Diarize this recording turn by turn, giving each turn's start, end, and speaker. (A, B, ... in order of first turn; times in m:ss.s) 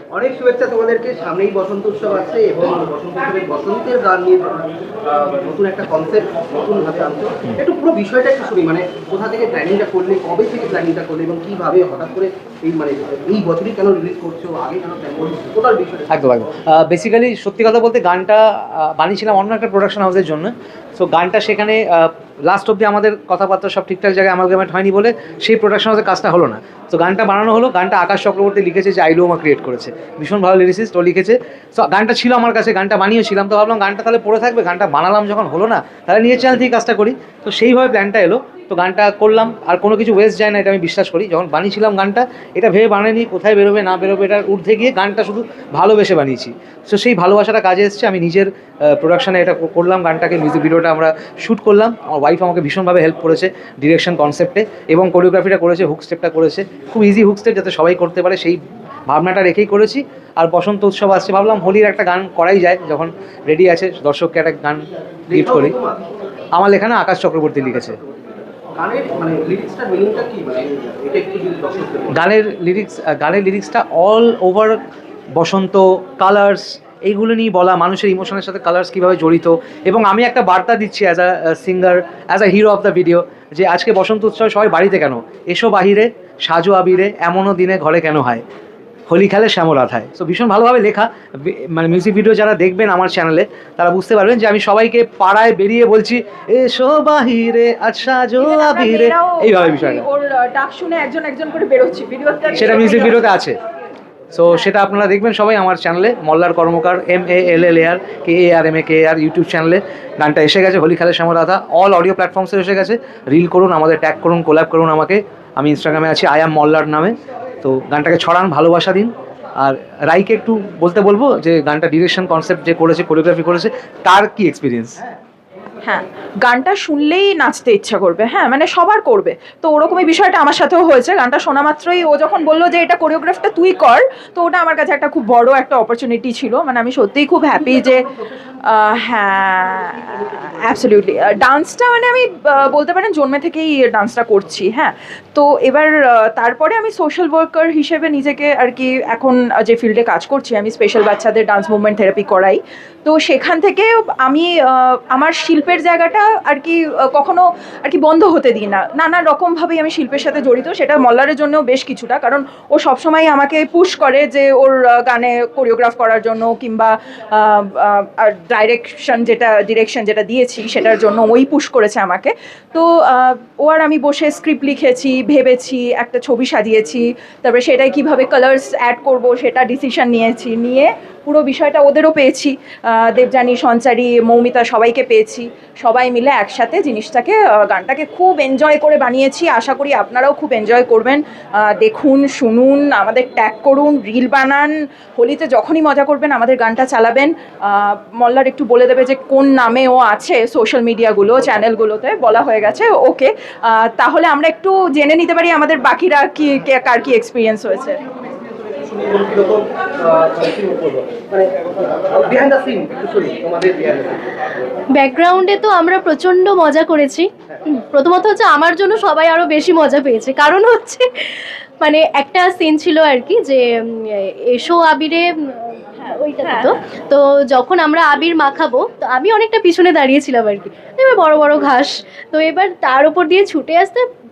0:00.1-0:16.1 A
0:16.1-1:05.8 B
1:05.3-1:06.0 A
1:06.5-1:08.0 B
1:07.7-1:08.2 A
1:08.8-1:12.2 A
1:12.1-1:14.8 B
1:15.3-1:28.4 B
1:29.1-1:40.0 B
1:38.4-1:43.2 C
1:42.5-1:43.6 B
1:44.3-2:05.0 B
2:05.8-2:18.1 C
2:17.6-2:18.6 A
2:18.7-3:28.0 C
2:19.5-2:21.3 A
3:28.0-3:34.2 A
3:34.9-3:54.1 D
3:46.4-3:46.7 C